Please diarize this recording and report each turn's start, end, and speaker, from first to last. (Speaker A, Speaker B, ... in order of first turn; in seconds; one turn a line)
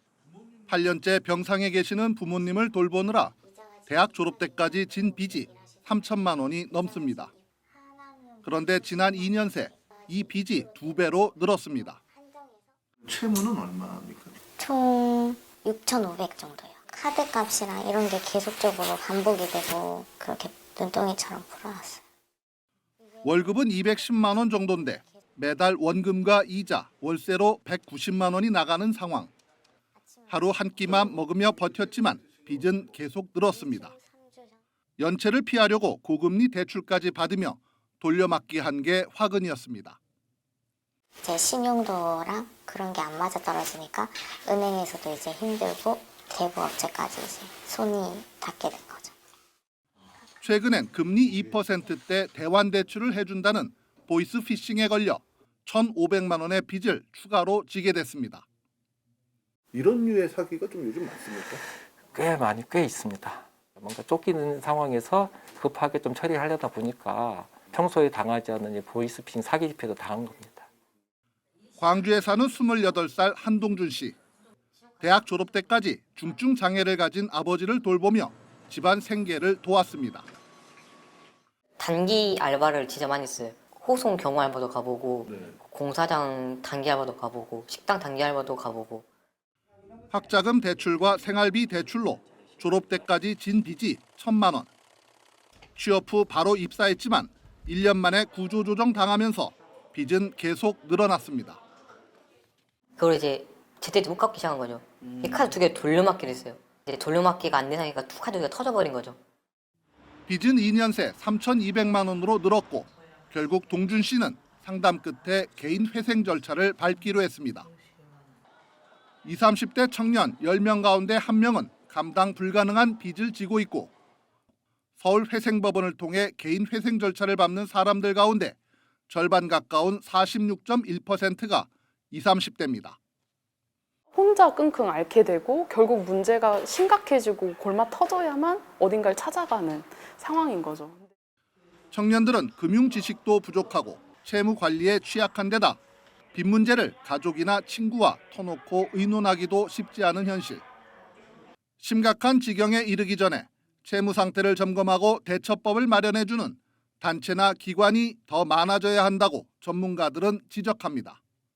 Speaker A: 0.7-3.4
Speaker A: 3.9-7.3
Speaker A: 8.4-12.0
Speaker B: 13.0-14.4
Speaker C: 14.6-22.0
Speaker A: 23.2-29.3
Speaker A: 30.3-33.9
Speaker A: 35.0-40.0
Speaker C: 41.2-49.1
Speaker A: 50.4-58.4
Speaker B: 59.7-61.6
Speaker D: 62.0-70.7
Speaker A: 71.8-74.2
Speaker A: 75.0-80.3
Speaker E: 81.8-89.0
Speaker A: 90.1-94.7
Speaker A: 95.8-101.6
Speaker E: 103.0-109.2
Speaker A: 110.3-117.7
Speaker A: 119.2-123.9
Speaker A: 125.0-128.6
Speaker A: 129.1-133.0
Speaker F: 134.1-141.1
Speaker A: 141.9-145.8
Speaker A: 146.3-150.6
Speaker A: 151.8-161.2